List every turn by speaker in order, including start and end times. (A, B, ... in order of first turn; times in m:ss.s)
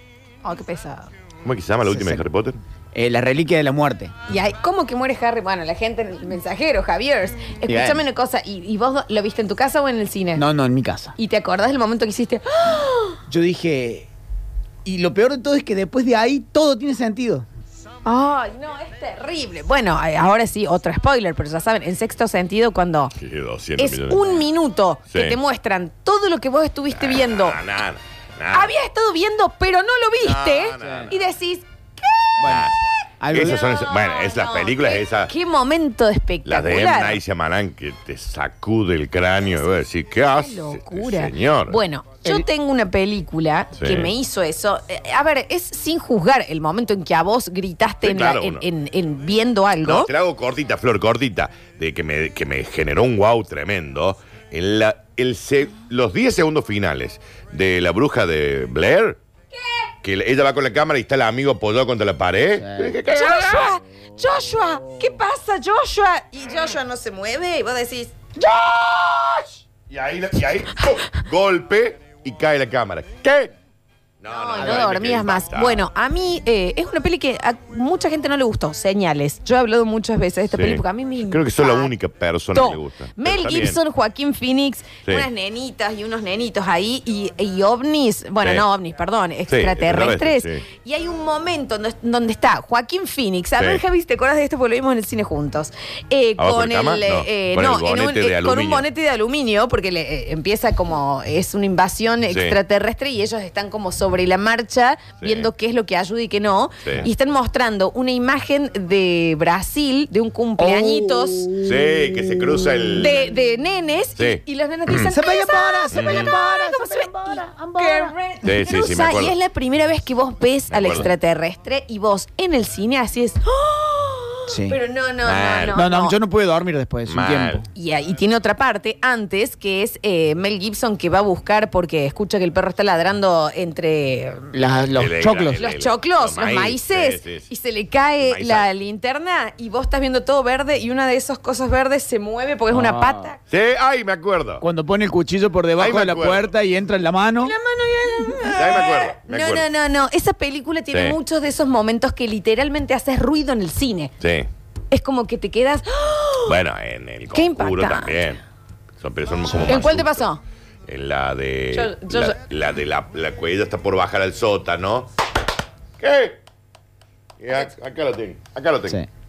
0:00.4-0:01.1 A
0:01.4-0:02.6 B
0:01.8-0:02.2 C
0:02.9-0:04.1 C
0:04.3-0:10.4 A
0:07.7-0:08.0 C
0:10.4-0:11.1 C
0:11.2-0:13.2 A
0:13.3-0:14.1 C
0:14.8-0:17.4 C
0:18.0-0:23.1 A
0:23.2-0:24.4 B
0:23.8-0:27.6 A
0:25.1-0:25.4 B
0:26.9-0:28.7 B
0:28.5-0:32.3 A
0:30.2-0:31.1 B
0:30.8-0:31.1 C
0:32.4-0:32.7 C
0:32.4-0:32.8 B
0:33.2-0:33.6 C
0:33.3-0:35.3 B
0:33.4-0:37.2 A
0:36.4-0:41.8 B
0:40.3-0:50.1 A
0:43.8-0:44.1 B
0:48.0-0:48.6 B
0:49.8-0:59.2 B
0:59.5-0:59.9 A
1:00.0-1:03.7 B
1:02.6-1:03.0 C
1:03.1-1:08.1 A
1:08.5-1:09.4 B
1:09.9-1:13.5 B
1:14.2-1:15.8 B
1:14.3-1:21.9 A
1:20.5-1:23.8 B
1:22.5-1:51.5 A
1:28.4-1:28.7 B
1:29.5-1:30.6 B
1:33.6-1:33.8 B
1:36.4-1:38.9 B
1:42.3-1:42.6 B
1:45.2-1:45.5 B
1:50.6-1:51.8 C
1:51.6-1:53.2 B
1:53.0-2:06.2 A
1:54.2-1:55.1 B
1:55.1-1:58.1 C
1:55.9-1:56.3 B
1:58.4-1:59.3 B
2:00.7-2:01.1 B
2:04.5-2:04.8 C
2:05.2-2:05.8 B
2:05.7-2:07.7 C
2:07.1-2:07.6 B
2:07.7-2:14.5 A
2:14.5-2:15.6 C
2:14.9-2:17.5 B
2:15.6-2:23.4 A
2:18.2-2:18.7 B
2:22.7-2:23.3 C
2:23.5-2:24.6 B
2:24.6-2:27.5 C
2:25.8-2:26.5 B
2:27.4-2:34.1 A
2:28.2-2:28.5 C
2:28.5-2:29.6 B
2:30.9-2:31.2 B
2:34.2-2:34.5 B
2:34.9-2:36.6 A
2:36.4-2:38.4 B
2:37.3-2:38.4 A
2:39.0-2:40.3 B
2:39.5-2:39.8 C
2:39.6-2:40.4 A
2:40.8-2:45.1 B
2:41.7-2:42.4 A
2:46.0-2:46.4 B
2:47.4-2:49.0 B